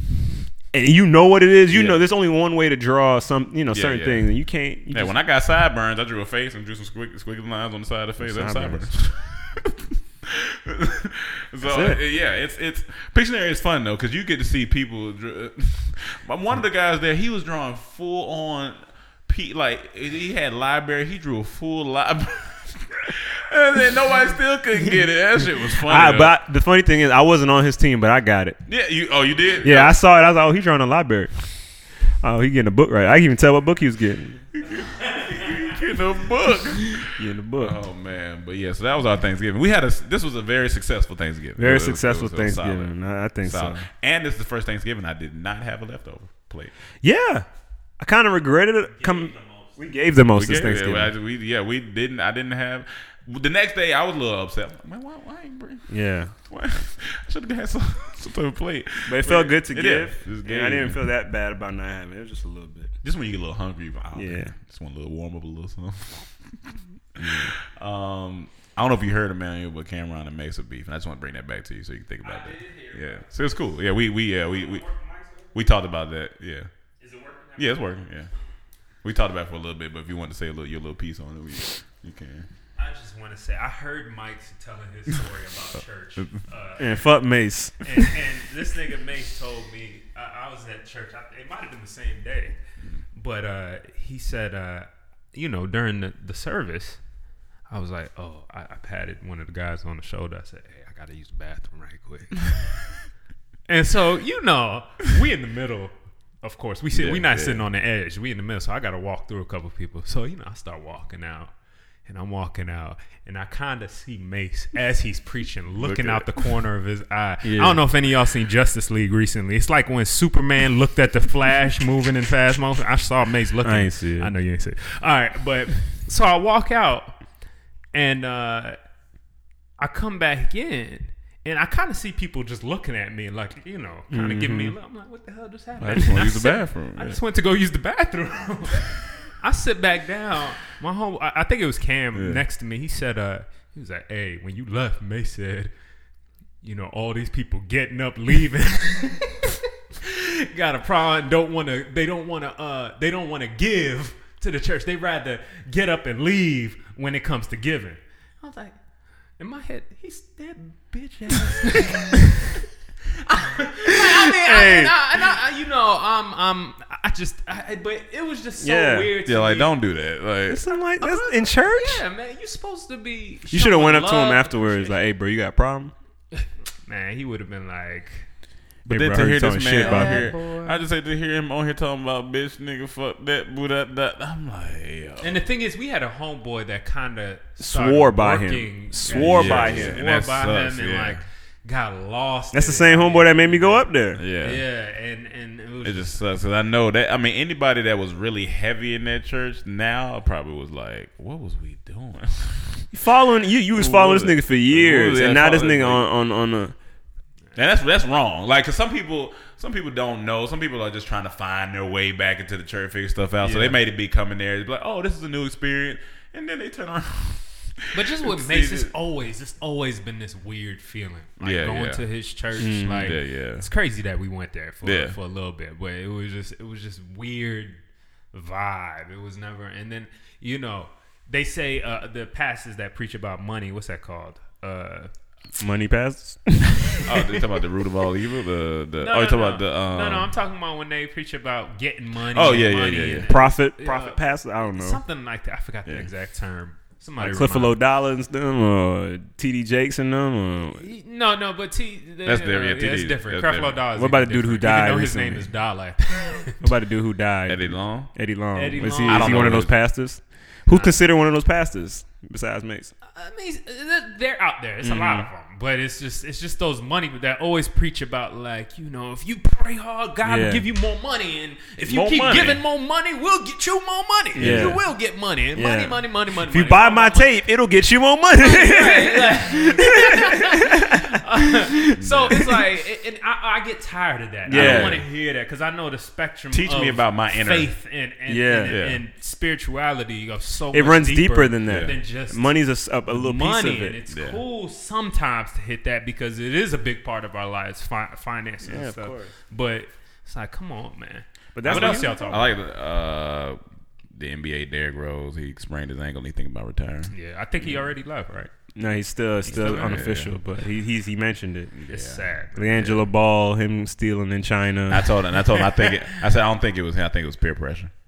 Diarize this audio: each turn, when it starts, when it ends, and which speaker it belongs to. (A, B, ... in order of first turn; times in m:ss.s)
0:00.7-0:05.1 A
0:01.7-0:02.0 B
0:03.7-0:04.3 B
0:04.9-0:26.3 B
0:08.2-0:08.9 A
0:11.6-0:12.0 A
0:25.8-0:28.6 A
0:28.7-0:30.0 B
0:29.6-0:31.3 A
0:32.2-0:34.4 A
0:34.5-0:42.9 B
0:37.0-0:37.8 A
0:41.6-0:43.8 A
0:43.4-0:46.7 B
0:47.0-0:47.4 A
0:48.0-0:51.1 A
0:49.0-0:49.7 C
0:50.3-0:55.9 B
0:55.9-0:56.3 A
0:56.5-1:01.0 B
0:59.0-1:02.9 A
1:03.0-1:14.8 B
1:04.1-1:04.5 A
1:12.4-1:13.2 C
1:15.5-1:16.7 B
1:17.0-1:17.6 C
1:17.6-1:18.3 B
1:19.0-1:22.4 B
1:22.8-1:27.0 C
1:26.8-1:27.8 A
1:27.8-1:32.6 C
1:33.1-1:37.0 C
1:37.7-1:42.5 C
1:43.7-1:51.5 C
1:46.9-1:47.6 B
1:52.0-2:07.2 C
1:55.8-1:56.3 B
1:57.4-1:57.8 A
2:03.6-2:04.3 A
2:07.9-2:08.8 C
2:09.8-2:25.7 C
2:14.1-2:14.7 A
2:15.8-2:17.2 B
2:22.1-2:22.4 B
2:26.6-2:38.8 C
2:39.4-2:42.6 C
2:43.2-2:49.7 C
2:43.9-2:44.9 A
2:48.6-2:49.1 A
2:49.2-2:50.6 B
2:50.5-2:52.0 A
2:51.0-2:55.0 C
2:53.5-2:55.9 A
2:56.4-2:58.2 C
2:58.8-3:05.4 B
2:58.9-3:00.3 A
2:59.8-3:00.8 C
3:05.2-3:16.1 C
3:07.6-3:10.0 A
3:09.1-3:11.2 B
3:12.5-3:14.2 A
3:14.2-3:14.6 B
3:15.8-3:22.8 B
3:22.9-3:26.7 A
3:23.7-3:26.0 B
3:27.5-3:38.9 B
3:33.4-3:33.8 C
3:37.9-3:47.8 C
3:41.4-3:42.0 B
3:42.6-3:43.2 A
3:42.9-3:43.7 B
3:44.8-3:45.2 B
3:48.3-3:55.1 C
3:55.6-3:57.1 A
3:57.0-4:00.3 B
3:59.0-4:04.2 C
4:02.3-4:03.3 B
4:03.3-4:05.0 A
4:04.7-4:07.8 C
4:07.2-4:10.8 A
4:10.7-4:16.7 C
4:12.2-4:13.8 B
4:13.9-4:15.5 A
4:16.6-4:22.9 A
4:17.5-4:18.1 B
4:18.6-4:19.6 C
4:19.0-4:19.7 B
4:20.7-4:21.0 C
4:23.1-4:37.3 C
4:24.8-4:25.3 A
4:30.2-4:30.6 A
4:31.8-4:32.6 B
4:34.3-4:34.8 A
4:34.4-4:34.8 B
4:35.5-4:42.5 A
4:38.4-5:02.6 C
4:42.0-4:42.4 B
4:44.4-4:45.0 A
4:44.5-4:45.0 B
4:46.5-4:47.7 B
4:48.3-4:48.7 A
4:48.7-4:49.0 B
4:50.7-4:54.0 A
4:51.6-4:52.0 B
4:54.1-4:54.4 B
4:58.6-4:59.3 A
5:01.5-5:02.4 A
5:01.6-5:03.6 B
5:04.1-5:07.8 B
5:07.1-5:08.5 C
5:08.8-5:11.7 A
5:09.5-5:10.3 B
5:09.6-5:10.0 C
5:11.7-5:13.0 B
5:11.9-5:12.8 C
5:12.5-5:15.1 A
5:14.9-5:17.9 B
5:15.4-5:16.0 C